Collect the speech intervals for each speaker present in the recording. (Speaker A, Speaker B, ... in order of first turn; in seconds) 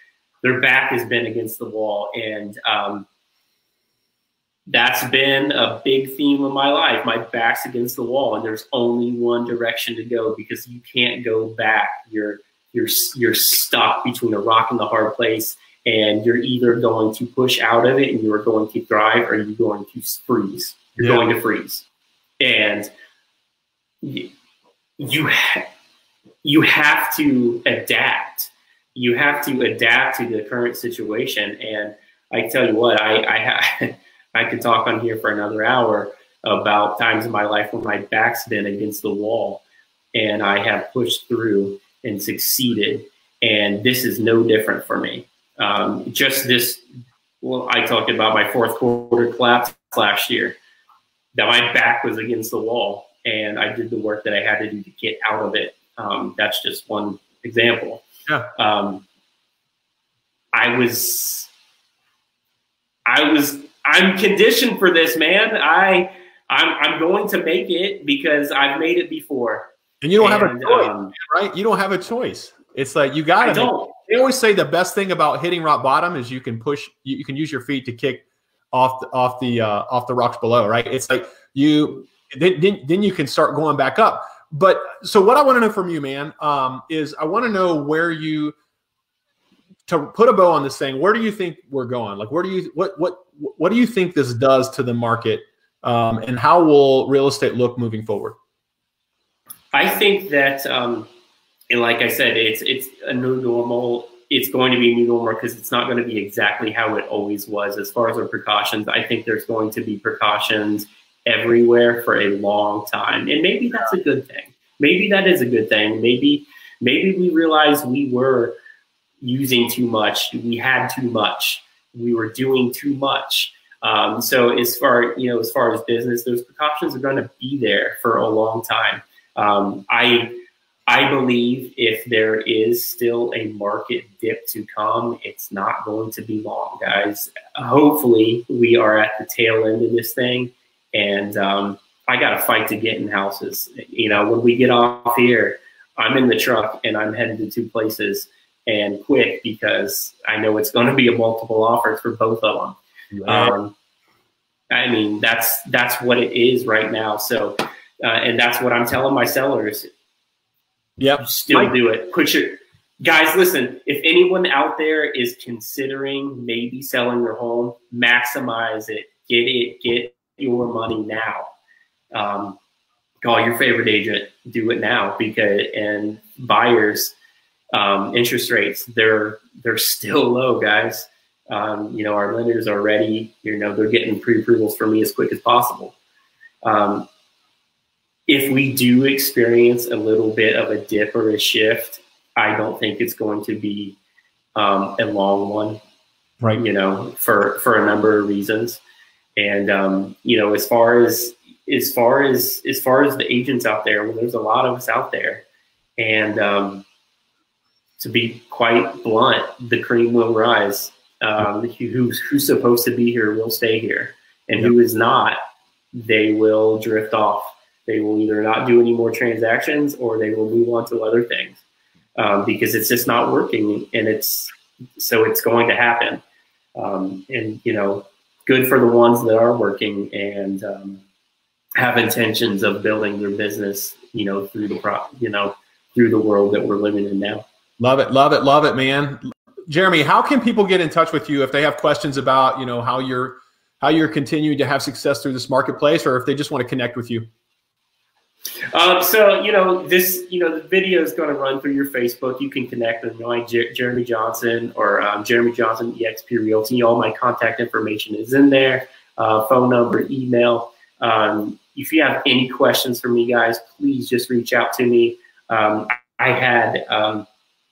Speaker A: 0.4-3.1, 4.7-21.8, 22.4-22.9, 24.0-24.3, 25.0-25.7, 26.4-39.6, 40.1-46.8, 47.4-50.6, 51.3-58.0, 58.5-59.0, 60.5-61.5, 63.0-69.7, 70.2-71.1, 73.4-74.0, 99.7-101.1, 101.7-118.5, 119.2-130.4, 130.9-153.7, 154.7-159.9, 161.2-171.5, 172.1-172.6, 173.2-177.2, 177.7-185.9, 186.6-187.1, 188.3-194.0, 194.6-195.8, 196.6-198.8, 199.4-205.4, 206.0-206.8, 208.0-215.4, 215.9-221.6, 222.2-226.2, 226.8-231.0, 231.8-237.4, 248.7-267.3
Speaker B: 21.0-21.2, 70.0-88.5, 89.9-98.4, 153.1-153.6, 161.0-161.7, 237.8-247.3